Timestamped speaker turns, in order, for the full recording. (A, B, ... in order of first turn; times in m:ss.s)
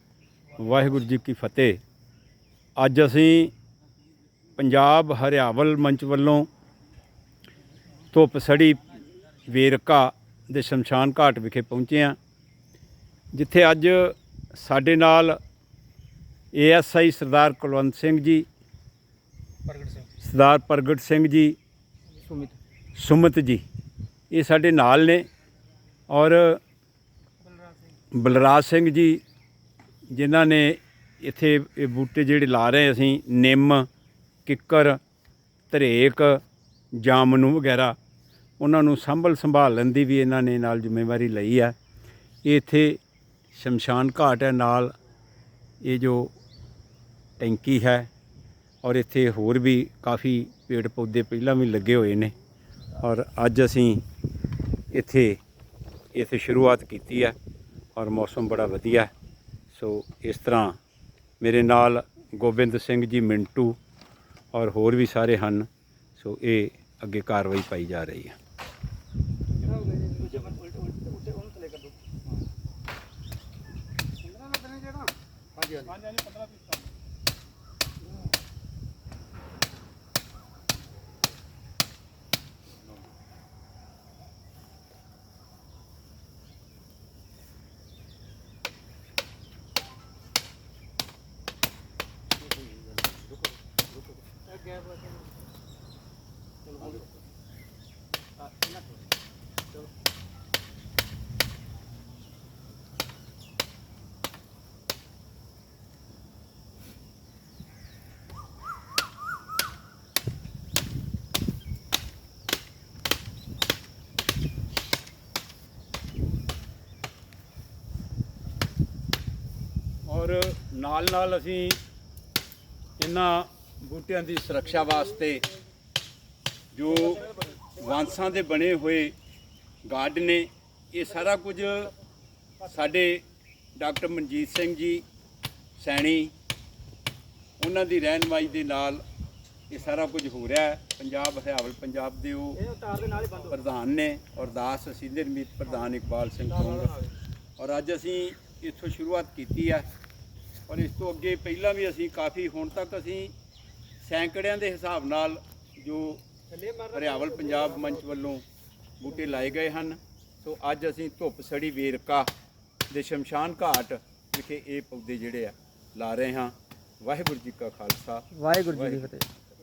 0:00.6-0:01.8 A
0:02.8-0:03.5 A
0:04.6-0:06.5 A
0:08.1-0:08.8 A
0:09.5-0:12.2 A
0:13.3-0:15.4 A
0:16.5-0:18.4 A
0:19.7-0:20.0 B
0:20.2-0:21.6 A
0:22.2-0:22.5 B
0:23.0-0:23.6 A
0:24.3-0:25.2 A
0:26.1-0:26.6 A
0:28.1-0:29.2 A
0:30.1-0:33.9 A
0:34.4-0:35.0 A
0:35.7-0:36.4 A
0:36.9-0:38.0 A
0:38.6-0:41.8 A
0:42.4-0:43.0 A
0:43.5-0:44.9 A
0:45.8-0:46.3 A
0:47.4-0:48.1 A
0:48.8-0:52.3 A
0:53.0-0:54.0 A
0:54.9-0:55.4 A
0:56.1-0:57.4 A
0:58.0-0:59.1 A
0:59.7-1:00.8 A
1:01.4-1:03.8 A
1:04.5-1:08.4 A
1:09.7-1:12.0 B
1:14.3-1:16.6 B
1:34.5-1:35.3 B
1:36.6-1:37.0 B
2:00.0-2:01.8 A
2:03.0-2:05.5 A
2:06.7-2:09.1 A
2:09.8-2:11.9 A
2:12.6-2:13.2 A
2:13.8-2:15.0 A
2:15.8-2:16.3 A
2:17.6-2:19.0 A
2:19.7-2:22.7 A
2:22.6-2:23.5 B
2:23.4-2:26.9 A
2:26.8-2:27.1 B
2:27.6-2:29.9 A
2:30.7-2:33.3 A
2:34.0-2:36.2 A
2:36.5-2:37.9 B
2:36.9-2:38.4 A
2:39.0-2:42.3 A
2:42.9-2:49.4 A